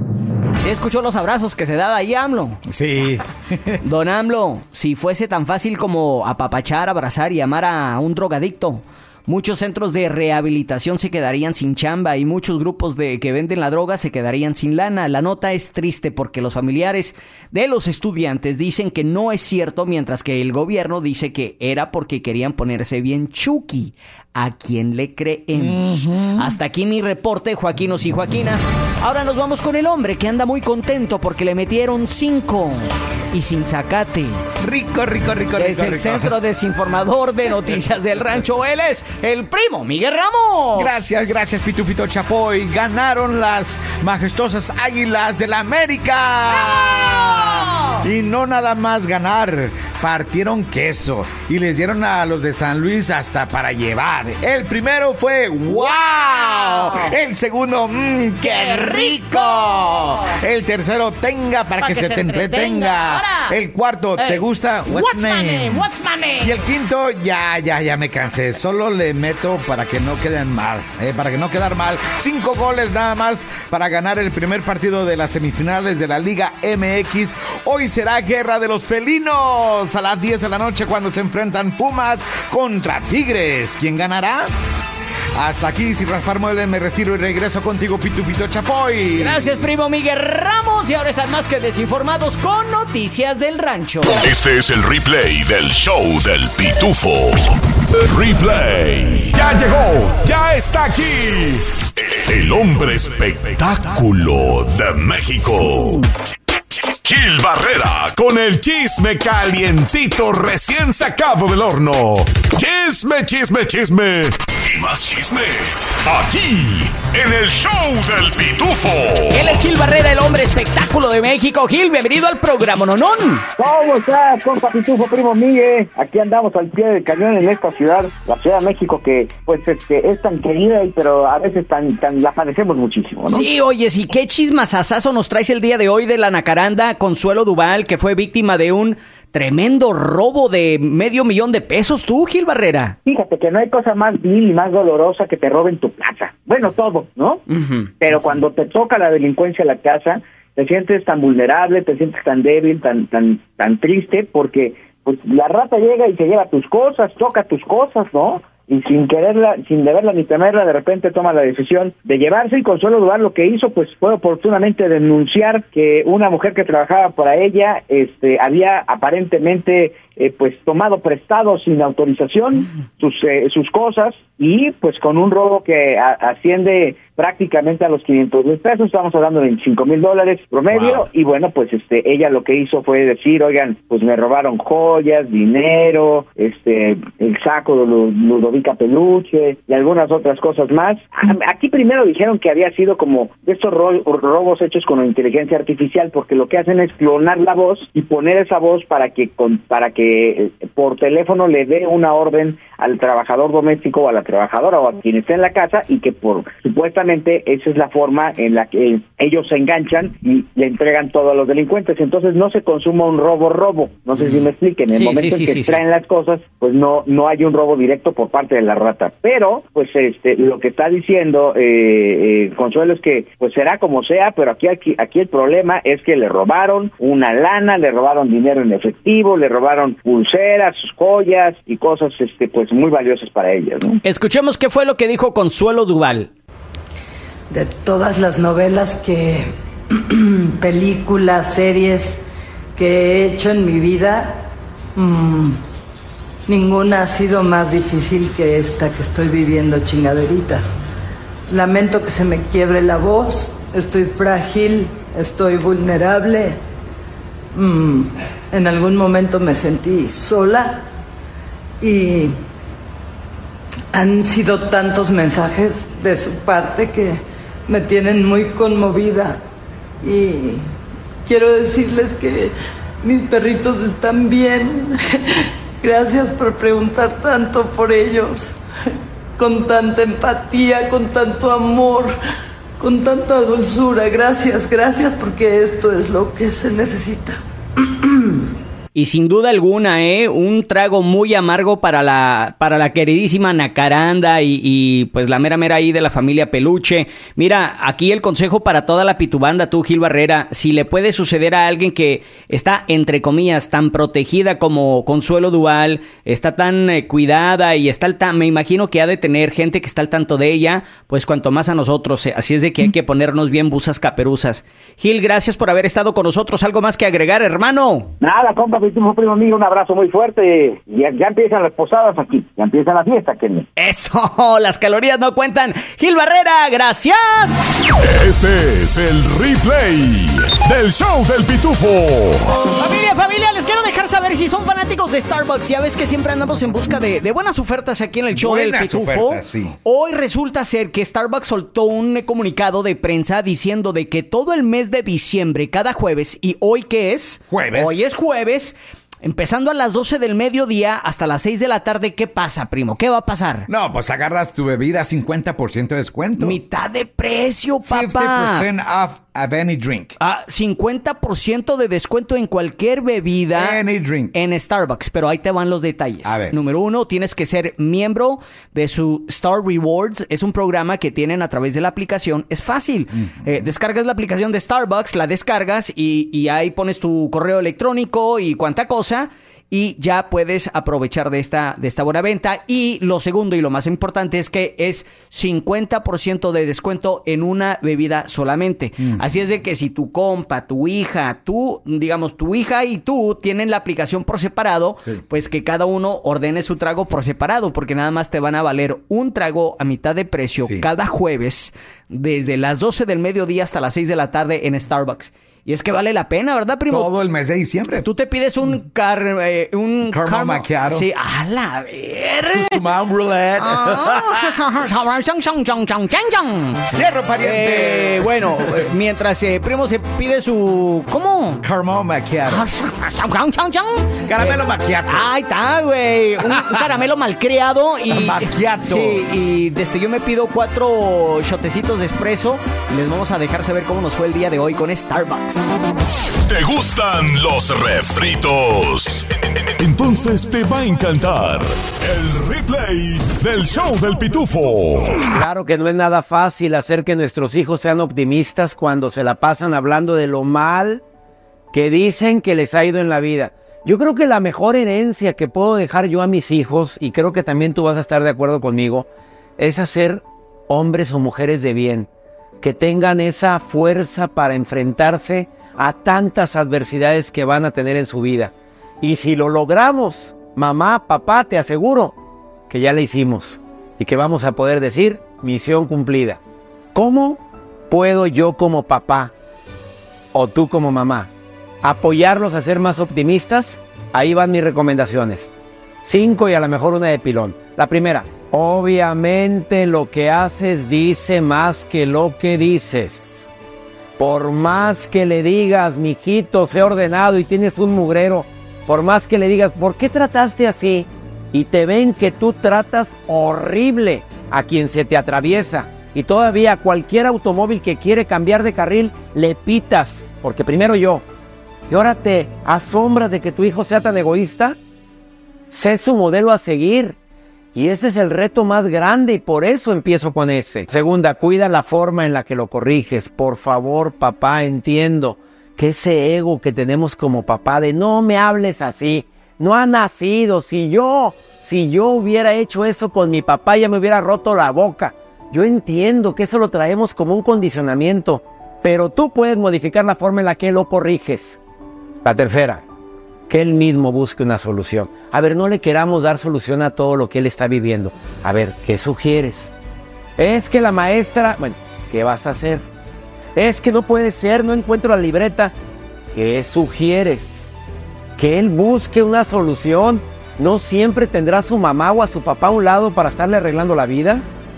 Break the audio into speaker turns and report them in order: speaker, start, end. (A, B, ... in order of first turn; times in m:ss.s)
0:00.6-0:02.6 A
0:02.7-0:03.8 B
0:03.8-0:34.4 A
0:25.5-0:26.6 B
0:34.6-0:36.3 B
0:35.6-0:41.0 A
0:40.8-1:05.9 B
0:47.0-0:47.9 A
0:56.5-0:57.1 A
0:58.4-1:00.0 A
1:01.8-1:03.6 A
1:04.2-1:06.5 A
1:06.4-1:24.5 B
1:25.4-1:29.7 B
1:29.2-1:34.2 A
1:34.2-1:37.5 C
1:38.1-1:46.0 C
1:47.0-1:59.6 C
1:59.3-2:03.4 A
2:03.6-2:13.4 D
2:13.3-2:23.0 A
2:23.0-2:27.4 D
2:27.5-2:27.9 A
2:28.0-3:54.0 D
3:00.7-3:01.0 A
3:34.2-3:35.8 A
3:54.0-3:56.3 A
3:57.5-4:02.2 E
4:02.8-4:04.4 E
4:05.0-4:05.6 E
4:06.5-4:10.8 E
4:11.5-4:16.6 E
4:17.5-4:20.8 E
4:21.8-4:22.3 E
4:23.9-4:29.4 E
4:30.0-4:30.6 E
4:31.2-4:38.5 E
4:39.4-4:42.1 E
4:42.8-4:48.5 E
4:48.9-5:18.1 A
5:18.2-5:23.7 D
5:23.8-5:27.7 A
5:28.0-5:32.5 C
5:32.6-5:53.7 A
5:38.3-5:39.8 B
5:47.5-5:48.0 B
5:53.7-5:56.6 B
5:56.4-5:58.6 A
5:57.8-6:00.2 B
6:00.2-6:03.8 A
6:03.5-6:04.3 B
6:04.3-6:47.1 A
6:06.2-6:06.6 B
6:40.6-6:40.9 B
6:46.9-6:48.1 B
6:48.0-6:52.8 A
6:50.1-6:51.0 B
6:52.4-6:54.6 B
6:53.6-6:56.8 A
6:56.9-6:58.8 B
6:57.4-7:01.6 A
7:01.6-7:02.7 B
7:02.4-7:15.7 A
7:04.2-7:05.3 B
7:06.5-7:06.8 B
7:08.1-7:09.2 B
7:16.5-7:19.2 C
7:19.8-7:25.2 C
7:25.3-7:31.0 F
7:31.7-7:42.1 F
7:42.6-7:52.1 F
7:52.7-7:56.4 F
7:56.9-7:59.3 F
8:00.3-8:01.3 F
8:01.8-8:05.5 F
8:06.0-8:13.5 F
8:14.2-8:31.2 F
8:31.9-8:34.8 F
8:35.7-8:37.2 F
8:37.7-9:01.6 F
9:02.2-9:02.8 F
9:03.5-9:09.7 F
9:10.4-9:12.8 F
9:13.5-9:15.7 F
9:16.3-9:17.7 F
9:18.4-9:24.4 F